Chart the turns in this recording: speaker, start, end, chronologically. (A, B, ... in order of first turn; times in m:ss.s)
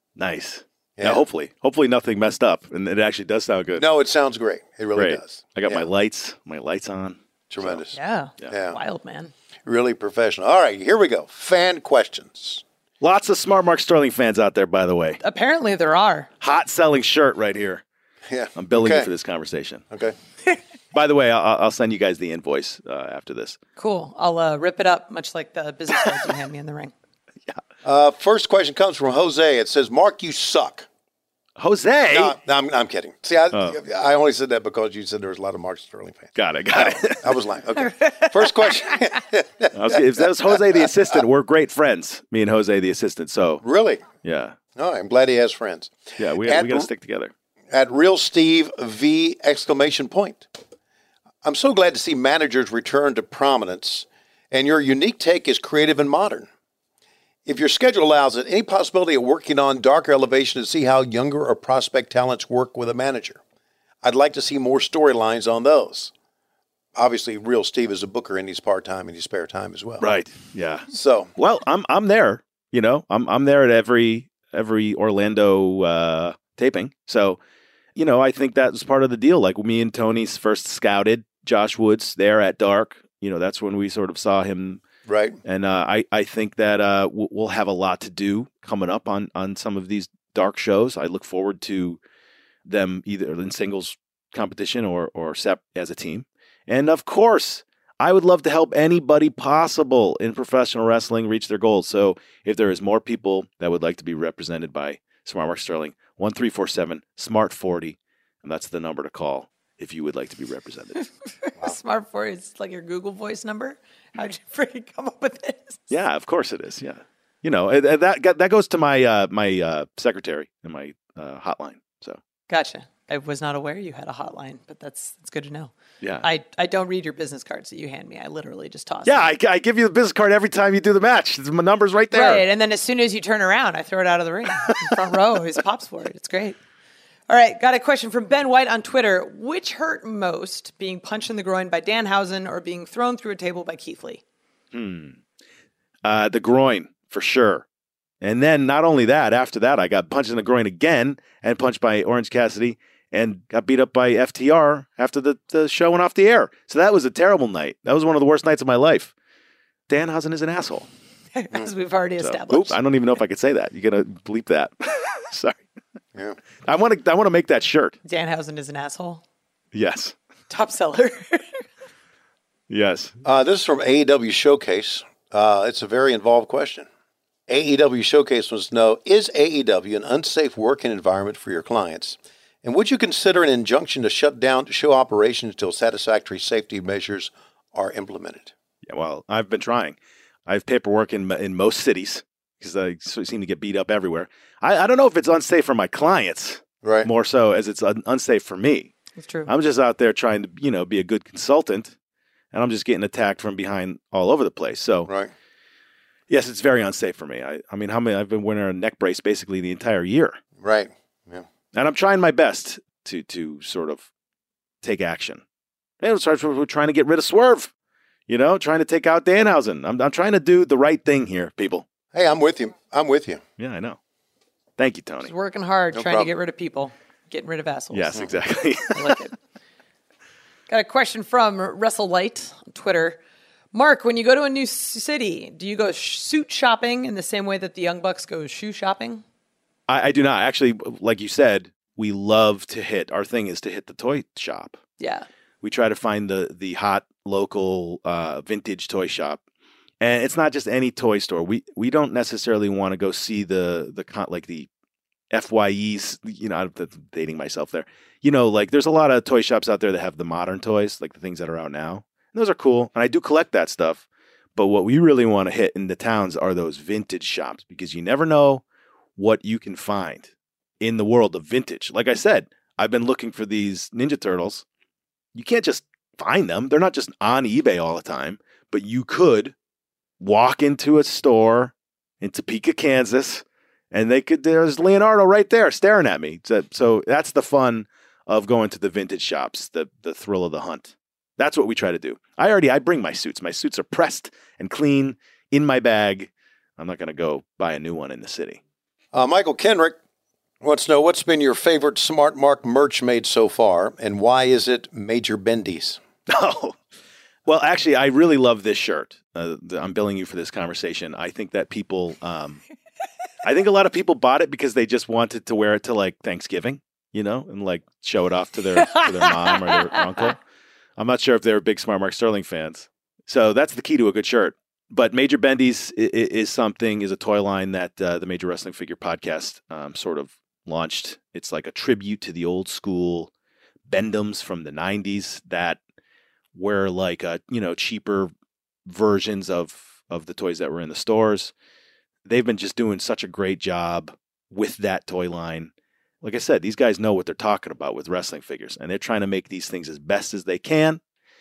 0:00.2-0:03.9 A
0:01.0-0:01.2 B
0:03.8-0:05.9 B
0:05.0-0:07.8 A
0:07.5-0:07.9 B
0:07.9-0:09.3 C
0:08.5-0:08.8 B
0:09.7-0:12.6 B
0:13.0-0:15.2 A
0:15.2-0:16.3 C
0:16.4-0:17.8 A
0:18.3-0:19.1 B
0:18.6-0:19.8 A
0:19.9-0:20.2 B
0:20.9-0:23.6 A
0:23.8-0:26.9 C
0:27.8-0:30.9 B
0:31.6-0:32.4 A
0:32.1-0:41.2 B
0:33.5-0:33.8 A
0:36.4-0:37.4 A
0:37.8-0:39.2 C
0:39.7-0:43.6 A
0:43.6-0:44.1 B
0:44.2-0:44.6 A
0:44.8-0:46.9 B
0:46.2-0:47.3 A
0:47.7-0:50.5 B
0:51.4-0:56.5 B
0:57.4-1:03.4 B
1:04.0-1:06.1 B
1:07.0-1:10.0 B
1:10.0-1:17.4 A
1:10.9-1:11.3 B
1:18.0-1:24.8 A
1:25.1-1:25.4 B
1:25.4-1:32.0 A
1:32.7-1:51.0 A
1:51.4-1:55.9 C
1:55.9-2:02.2 A
2:02.5-2:09.3 C
2:09.0-2:12.4 A
2:12.1-2:16.6 C
2:17.3-2:24.2 C
2:24.7-2:25.2 A
2:26.0-2:27.6 A
2:28.2-2:39.1 A
2:39.9-2:40.9 A
2:41.4-2:42.8 C
2:42.2-2:45.6 A
2:46.6-2:48.0 A
2:48.0-2:49.2 C
2:49.7-2:50.2 A
2:50.5-2:51.6 C
2:52.7-2:53.2 A
2:53.2-2:56.9 B
2:57.5-3:08.5 B
3:08.9-3:10.0 A
3:10.5-3:18.9 A
3:16.8-3:17.1 B
3:19.2-3:19.5 C
3:19.5-3:21.9 A
3:22.5-3:25.1 A
3:25.1-3:25.3 B
3:26.3-3:30.4 A
3:30.6-3:31.5 B
3:31.7-3:34.1 A
3:34.8-3:35.4 A
3:36.0-3:37.7 A
3:38.3-3:41.9 A
3:42.1-3:43.4 B
3:43.6-3:44.0 A
3:44.8-3:45.3 A
3:45.2-3:48.3 C
3:46.0-3:46.3 B
3:47.9-3:49.2 A
3:48.9-3:49.4 C
3:50.7-3:53.2 C
3:53.7-3:59.2 C
3:59.9-4:04.8 A
4:05.0-4:05.3 C
4:05.6-4:09.4 A
4:10.0-4:14.7 A
4:15.3-4:24.0 A
4:24.6-4:28.6 A
4:29.2-4:34.6 A
4:35.4-4:39.5 A
4:40.2-4:58.6 A
4:59.1-5:00.0 B
5:00.6-5:06.0 B
5:06.3-5:06.8 A
5:07.5-5:12.6 A
5:13.4-5:20.4 A
5:18.8-5:20.3 C
5:21.0-5:33.3 A
5:33.9-5:35.8 A
5:36.5-5:38.3 A
5:38.9-5:41.5 A
5:42.2-5:51.0 A